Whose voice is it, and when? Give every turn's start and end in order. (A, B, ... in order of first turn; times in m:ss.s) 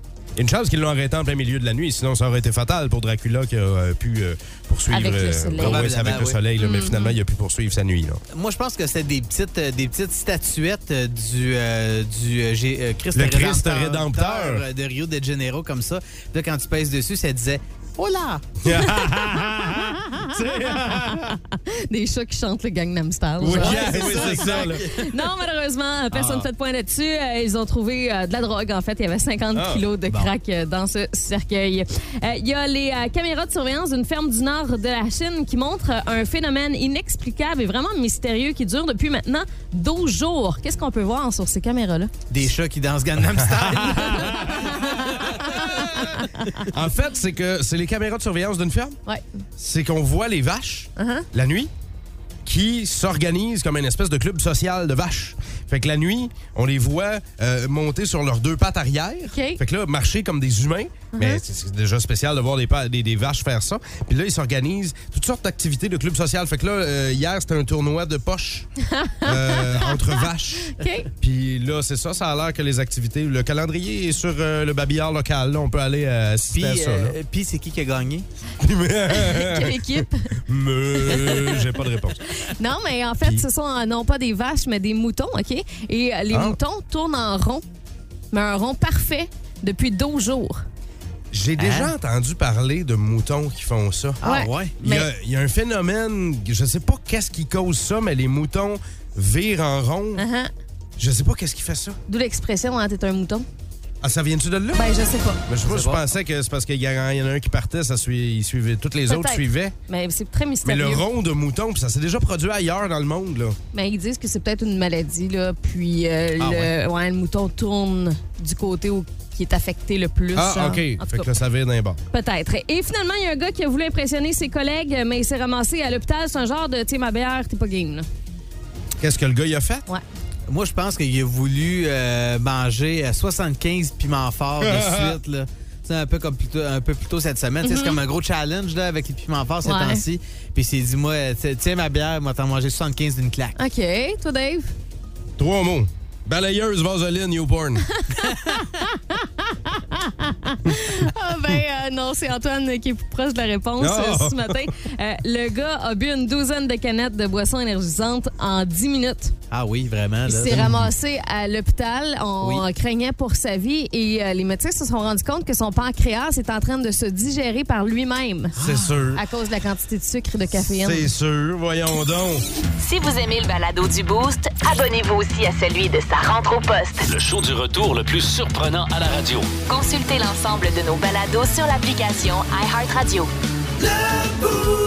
0:00.4-0:08.2 A
0:04.9-0:05.9 B
0:05.6-0:06.4 C
0:06.6-0:07.2 B
0:08.3-0:18.4 C
0:13.1-0:14.6 A
0:18.6-0:21.4 A
0:18.7-0:20.2 B
0:21.5-0:42.1 B
0:23.4-0:24.9 A
0:23.4-0:25.0 C
0:26.1-0:26.5 C
0:29.5-0:29.8 A
0:42.3-0:46.0 C
0:43.2-0:44.6 A
0:44.4-0:46.3 B
0:46.7-0:49.0 A
0:49.6-0:51.7 A
0:51.0-0:51.3 B
0:52.4-1:08.7 A
0:59.3-0:59.6 B
1:01.1-1:01.4 B
1:08.9-1:11.1 B
1:09.2-1:17.2 A
1:16.5-1:18.3 C
1:18.6-1:22.2 A
1:19.1-1:20.3 B
1:21.0-1:21.6 B
1:22.4-1:27.6 B
1:26.3-1:26.6 A
1:28.3-1:30.6 B
1:31.3-1:34.2 A
1:31.6-1:31.9 C
1:34.2-1:34.7 C
1:34.2-1:35.1 B
1:34.8-1:40.2 A
1:40.2-1:40.5 B
1:41.0-1:42.0 A
1:42.1-1:43.5 B
1:44.0-1:44.9 A
1:44.7-1:45.4 B
1:45.5-1:49.7 A
1:45.6-1:46.1 C
1:49.1-1:51.0 B
1:50.6-1:53.6 A
1:53.7-2:01.3 B
1:56.4-1:56.7 C
2:00.3-2:02.0 A
2:02.1-2:08.1 B
2:09.0-2:09.8 A
2:10.5-2:23.6 C
2:14.6-2:15.2 A
2:17.6-2:18.0 B
2:19.6-2:20.0 B
2:23.6-2:24.7 B
2:25.4-2:27.9 A
2:28.0-2:39.4 B
2:33.8-2:34.7 A
2:39.5-2:40.9 C
2:40.3-2:48.6 B
2:40.6-2:40.8 A
2:48.6-2:49.0 C
2:48.6-2:49.2 A
2:49.1-2:51.1 B
2:50.5-2:52.4 A
2:52.8-2:57.0 D
2:57.0-2:59.5 E
2:59.7-3:03.3 D